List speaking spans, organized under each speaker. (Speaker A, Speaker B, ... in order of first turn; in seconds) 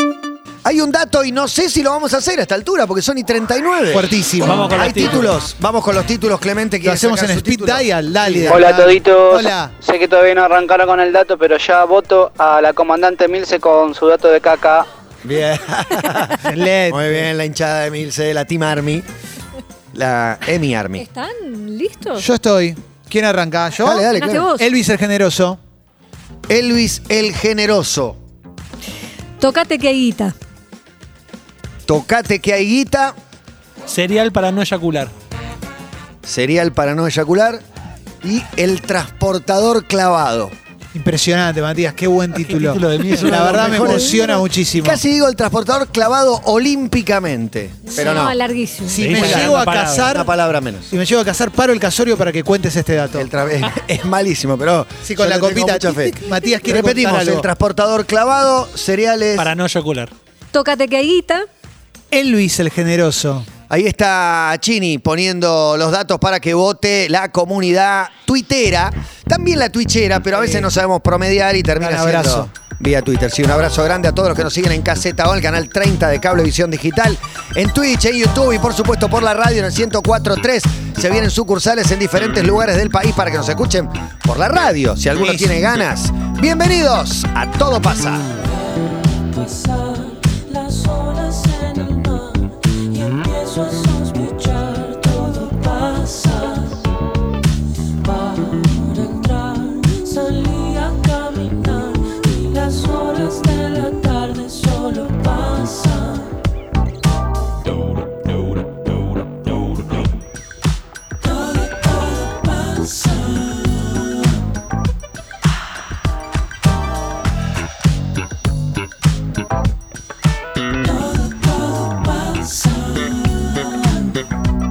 Speaker A: 0.7-8.7, 15.2-19.1, 19.9-21.1, 23.8-24.5, 26.5-28.2, 31.9-33.1, 36.2-37.6, 38.2-40.5, 43.1-48.4, 49.1-49.6, 50.1-50.9, 53.1-59.5, 63.7-88.3
Speaker B: 3.9-4.7, 6.8-9.7, 16.4-17.3, 22.2-25.6, 40.9-45.0, 48.9-50.3, 50.9-53.3, 55.0-57.5, 62.1-63.5, 70.4-70.7, 71.8-72.5
Speaker C: 4.4-5.4, 33.9-35.1, 42.3-44.0, 49.0-50.2, 59.4-60.1
Speaker D: 8.5-14.9
Speaker E: 21.0-22.3, 24.1-24.7, 29.4-30.4, 47.9-49.0, 60.5-61.5
Speaker F: 89.3-92.5, 93.0-96.8, 98.2-106.3, 121.3-123.1